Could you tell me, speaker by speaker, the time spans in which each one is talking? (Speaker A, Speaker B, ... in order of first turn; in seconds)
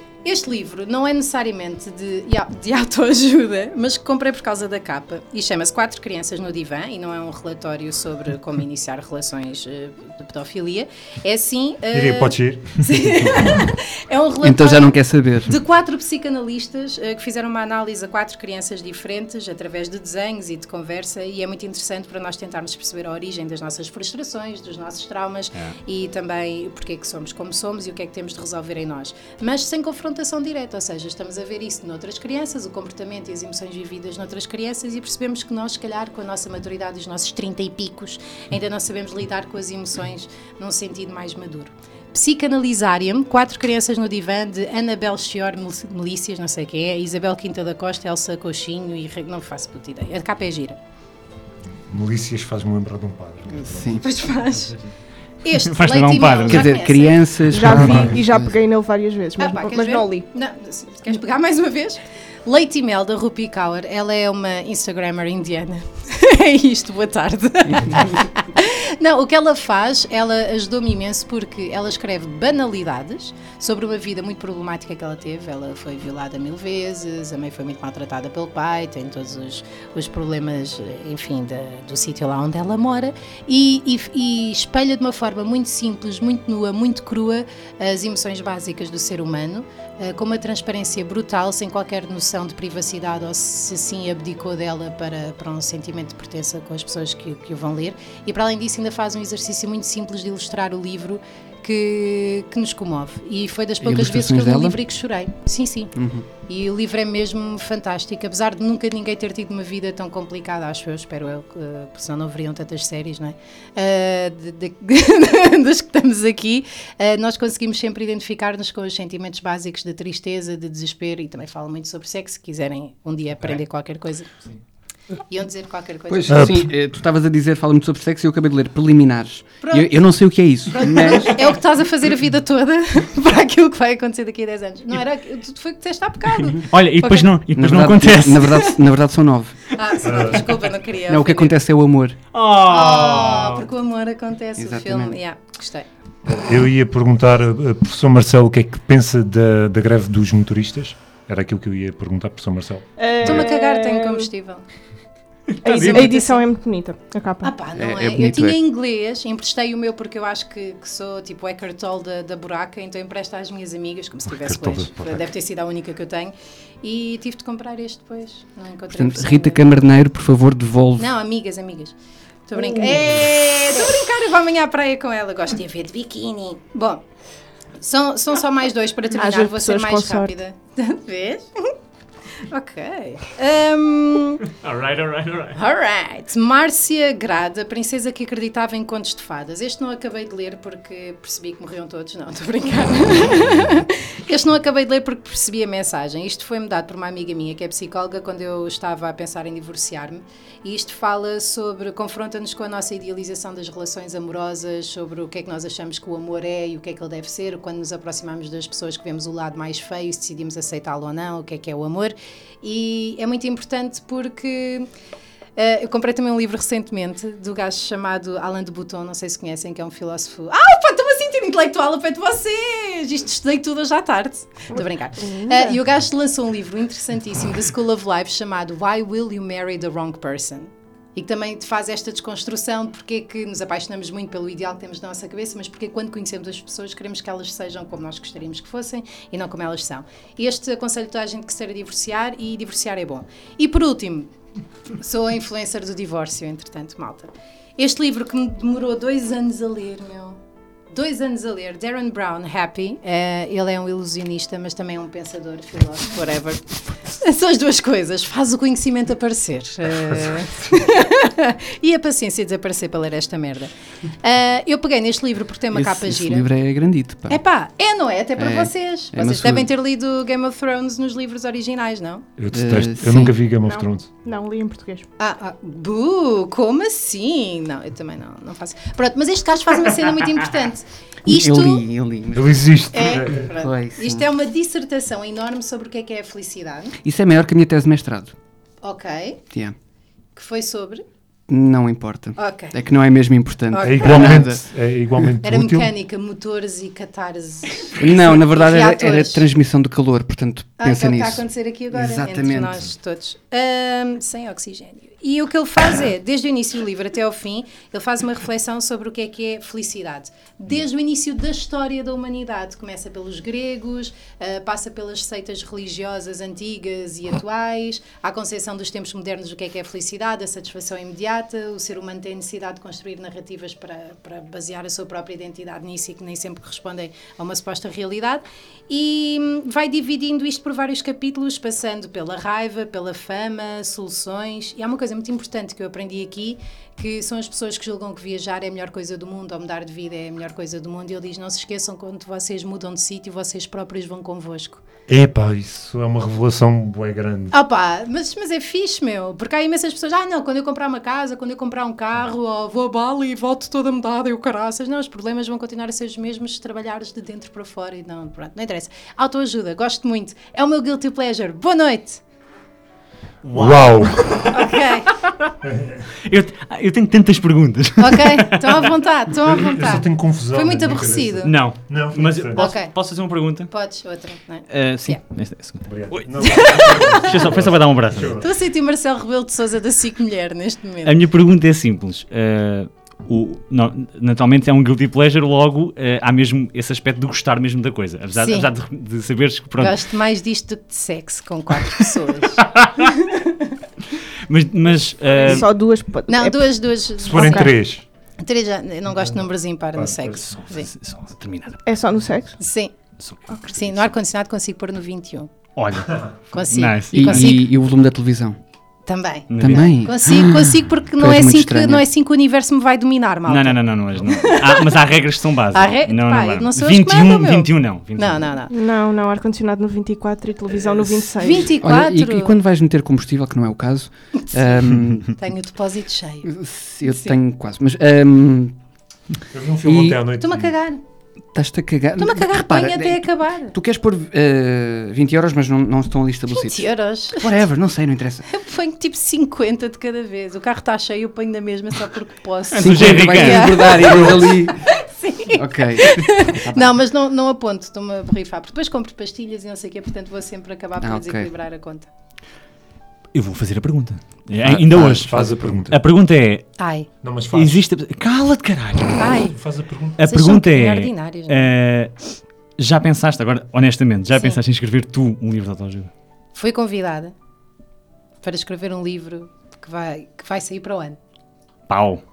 Speaker A: 0.2-50.8, 53.9-54.8, 55.4-57.4, 59.4-105.9, 106.5-124.3, 125.3-126.5, 129.6-130.0, 130.7-137.3, 139.7-141.5, 142.6-145.9, 153.2-154.6, 155.7-156.4, 157.4-169.7, 171.0-171.9, 172.5-177.0, 177.8-181.7, 182.5-184.5, 185.6-214.9, 215.6-244.3, 245.0-250.4, 250.9-266.5, 267.3-272.3, 275.2-281.8, 282.9-286.9, 288.8-289.4, 290.4-291.0, 292.4-292.8, 293.7-294.4, 295.4-299.4, 300.8-344.8, 347.5-362.2, 364.5-365.2, 368.0-371.6, 372.6-372.9, 373.7-375.2, 376.4-377.5, 378.4-381.2, 388.4-388.7, 389.8-393.7, 395.4-395.6, 396.3-397.8, 398.4-400.9, 402.6-402.9, 403.7-405.5, 406.5-407.7, 409.1-414.9, 415.7-418.7, 421.4-422.6, 425.3-426.5, 427.1-427.4, 430.4-431.0, 432.2-433.8, 436.5-437.5, 438.5-452.1, 456.8-457.1, 459.2-459.6, 460.2-461.7, 464.3-464.6, 466.6-467.3, 468.4-471.2
Speaker B: 11.9-13.3, 51.9-54.1, 57.8-58.0, 126.3-126.7, 140.0-140.5, 146.3-153.5, 164.3-165.3, 272.4-274.1, 282.3-283.5, 293.8-295.9, 345.1-347.6, 363.5-364.6, 365.6-366.1, 369.4-372.6, 375.9-378.5, 397.2-398.0, 399.1-400.5, 429.5-430.7, 454.9-456.0, 457.2-457.8, 459.4-460.2
Speaker C: 14.4-15.6, 53.5-54.0, 56.5-58.5, 103.8-104.8, 106.0-106.3, 126.1-131.4, 137.6-139.7, 141.1-142.2, 144.6-145.2, 157.8-158.6, 168.9-171.1, 265.7-267.4, 268.4-269.7, 272.5-273.4, 281.3-282.6, 283.5-284.3, 287.0-288.3, 291.5-294.6, 298.0-302.9, 407.1-408.6, 409.6-412.1, 421.7-425.4, 426.4-428.8, 429.9-430.2, 431.5-438.5, 442.8-444.9, 445.5-447.0, 451.0-451.5, 454.6-455.3
Speaker D: 55.5-56.8, 136.6-138.7, 142.3-143.7, 155.6-156.1, 184.5-185.6, 363.4-364.6, 365.1-365.5, 366.2-368.9, 371.4-373.7, 374.7-378.4, 381.0-390.0, 392.6-393.1, 394.5-395.7, 400.5-401.8, 403.2-404.1, 405.8-407.6, 409.5-409.9, 413.5-418.5, 442.7-444.3, 453.3-456.7, 457.5-459.4, 460.2-462.1, 462.8-466.1, 471.9-472.2
Speaker E: 57.5-60.3, 153.0-154.3, 155.6-157.5, 172.6-173.1, 179.1-180.4, 224.7-225.8, 273.7-275.1, 395.4-396.7, 397.3-397.7, 401.9-402.6, 418.7-421.8